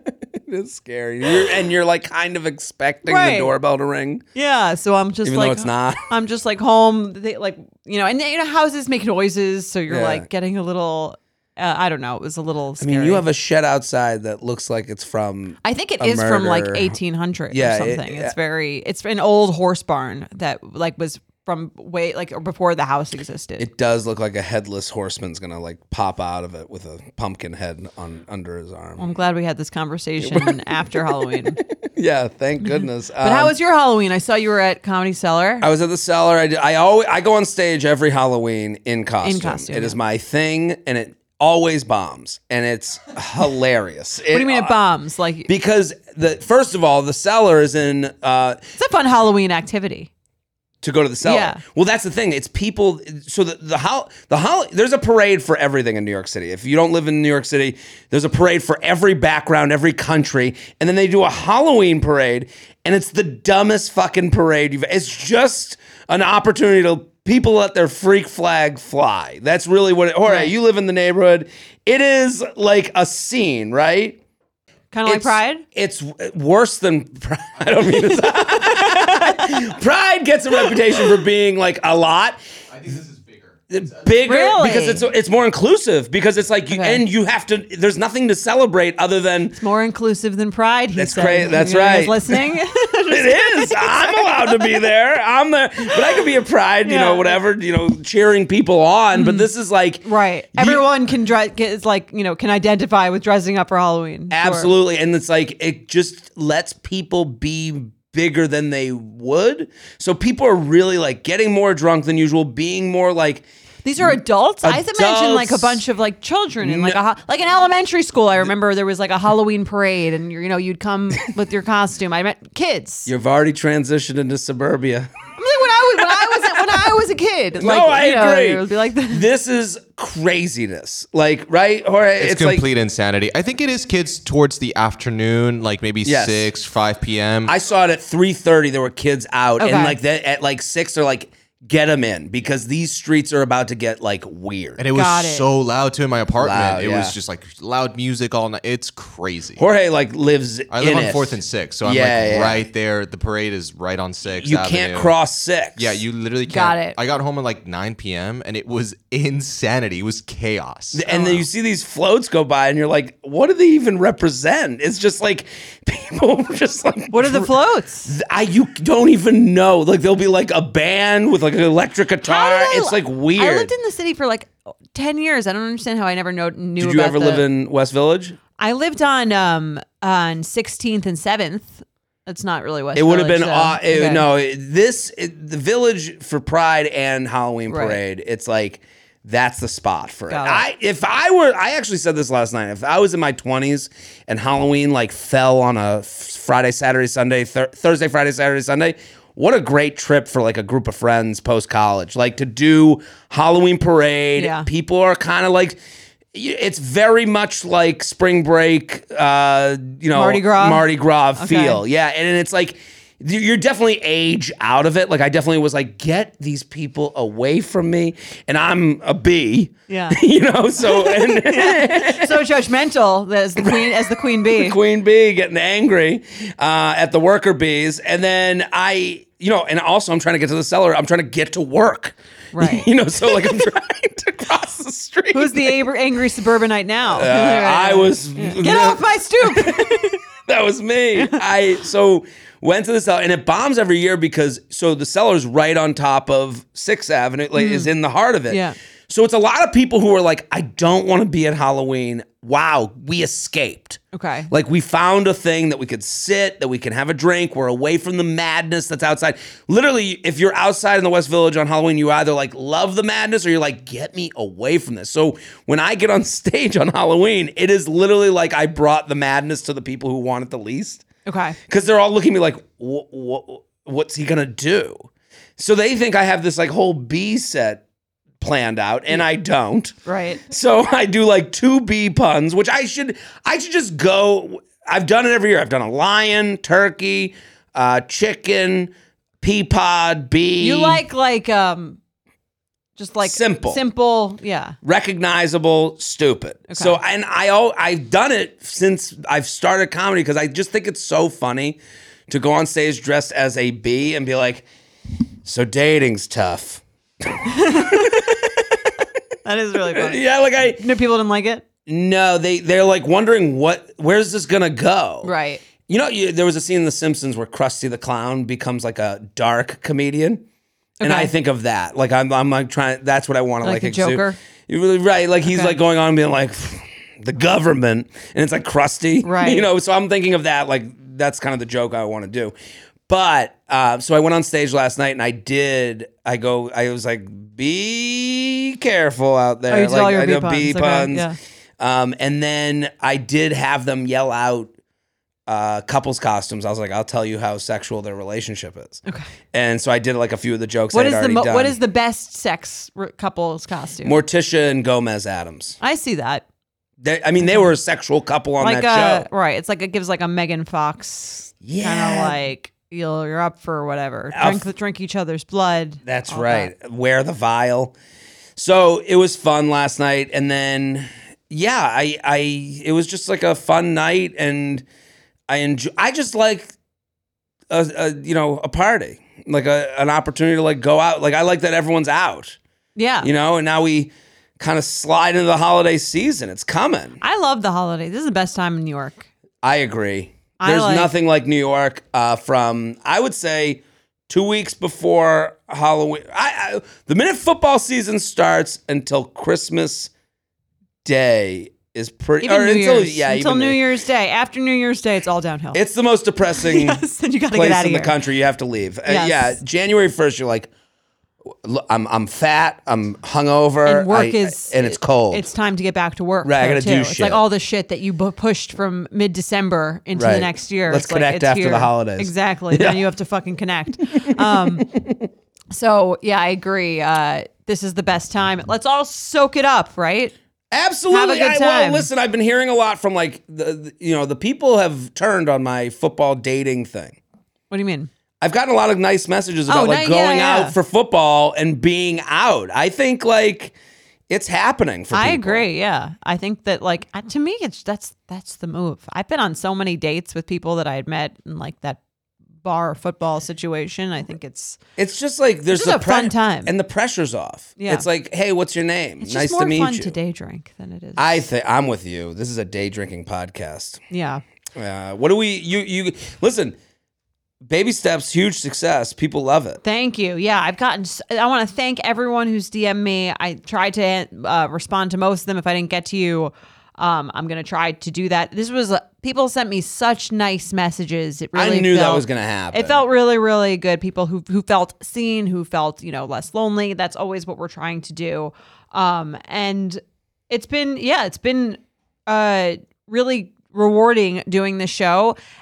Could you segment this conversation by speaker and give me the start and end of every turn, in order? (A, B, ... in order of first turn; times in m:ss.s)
0:00.5-0:04.2 A
0:03.0-0:03.5 B
0:04.3-0:13.2 B
0:05.2-0:06.1 A
0:09.9-0:10.2 A
0:12.8-0:16.9 A
0:15.6-0:23.6 B
0:17.5-0:18.3 A
0:23.6-0:29.0 A
0:29.0-0:31.6 B
0:30.2-0:33.5 A
0:32.7-0:35.6 B
0:35.6-0:44.7 A
0:39.2-0:40.0 B
0:44.3-0:45.5 B
0:45.5-0:48.6 A
0:48.8-0:50.1 B
0:50.8-1:14.2 A
0:51.2-0:51.6 B
1:10.2-1:10.5 B
1:14.9-1:15.6 B
1:15.0-1:22.4 A
1:18.5-1:19.6 B
1:22.8-1:23.4 C
1:23.7-1:29.6 A
1:24.2-1:25.1 B
1:26.7-1:27.0 B
1:29.5-1:34.8 B
1:31.0-1:32.5 A
1:33.1-1:40.0 A
1:36.8-1:37.4 B
1:39.1-1:39.5 B
1:40.0-1:44.7 B
1:40.5-1:40.8 A
1:44.3-1:53.4 A
1:53.8-2:03.1 B
1:54.0-1:55.8 A
1:56.6-1:57.0 A
2:03.0-2:05.1 A
2:05.4-2:09.3 B
2:07.6-2:12.6 A
2:12.2-2:17.5 C
2:16.0-2:16.5 A
2:17.4-2:24.8 A
2:19.6-2:20.0 B
2:24.8-2:29.6 C
2:24.9-2:25.4 B
2:26.4-2:27.2 A
2:29.6-2:32.6 A
2:30.7-2:35.1 C
2:34.4-2:36.0 A
2:35.8-2:41.0 C
2:36.5-2:37.0 B
2:40.9-2:47.5 A
2:41.1-2:41.4 B
2:47.1-2:48.1 B
2:48.0-2:53.7 A
2:52.2-2:57.4 B
2:56.8-2:58.4 A
2:58.6-3:04.2 B
3:02.9-3:25.8 A
3:07.7-3:08.0 B
3:10.3-3:10.6 B
3:24.4-3:24.7 B
3:26.3-3:42.4 A
3:30.1-3:31.8 B
3:39.9-3:40.2 B
3:40.8-3:44.8 B
3:43.6-3:43.9 A
3:44.4-3:55.8 A
3:52.5-3:52.9 B
3:55.3-4:00.2 B
3:57.1-3:59.8 A
4:00.5-4:14.0 A
4:07.5-4:07.9 B
4:08.5-4:08.8 B
4:14.1-4:14.5 B
4:14.5-4:31.0 A
4:31.2-4:31.6 B
4:31.7-4:35.0 A
4:35.6-4:37.8 A
4:38.4-4:40.0 A
4:40.0-4:40.4 B
4:40.5-4:51.0 A
4:50.6-4:52.0 B
4:53.0-4:54.8 B
4:53.2-4:53.8 A
4:54.8-5:04.6 A
4:56.7-4:57.0 B
5:05.4-5:06.8 A
5:07.3-5:08.4 A
5:07.5-5:08.7 B
5:09.4-5:11.6 B
5:09.9-5:10.8 A
5:11.8-5:15.3 A
5:15.2-5:15.6 B
5:15.8-5:20.4 A
5:21.0-5:21.3 B
5:21.0-5:32.5 A
5:23.6-5:24.4 B
5:25.4-5:25.8 B
5:29.2-5:29.7 B
5:33.1-5:41.3 A
5:39.7-5:41.3 B
5:41.8-5:44.7 A
5:45.5-5:51.8 A
5:50.9-5:54.2 B
5:54.0-5:55.8 A
5:55.8-5:56.4 B
5:57.0-5:59.3 A
5:57.4-5:57.7 B
5:58.6-6:06.7 B
6:01.6-6:02.4 A
6:04.3-6:04.6 A
6:06.0-6:07.9 A
6:08.6-6:14.8 A
6:15.5-6:16.7 A
6:17.7-6:22.6 A
6:23.0-6:23.3 B
6:23.2-6:27.2 A
6:27.2-6:29.3 B
6:29.6-6:40.1 A
6:30.6-6:31.1 B
6:41.0-6:43.8 A
6:42.4-6:45.8 B
6:45.7-6:47.0 A
6:46.5-6:48.2 B
6:47.5-6:50.7 A
6:49.0-6:49.6 B
6:51.6-6:55.4 A
6:53.8-7:04.8 B
6:56.4-6:57.4 A
7:00.2-7:03.0 A
7:04.1-7:05.3 A
7:05.7-7:10.3 B
7:10.7-7:17.2 A
7:11.1-7:12.1 B
7:17.7-7:18.1 B
7:18.4-7:23.7 A
7:19.7-7:20.7 B
7:24.3-7:25.6 A
7:25.1-7:32.0 B
7:32.6-7:34.8 B
7:35.0-7:40.1 A
7:35.7-7:36.7 B
7:37.8-7:38.0 B
7:39.2-7:41.4 B
7:41.2-7:44.0 A
7:44.1-7:44.4 B
7:44.8-7:46.8 A
7:47.6-7:49.8 A
7:49.8-8:15.4 B
8:01.6-8:03.0 A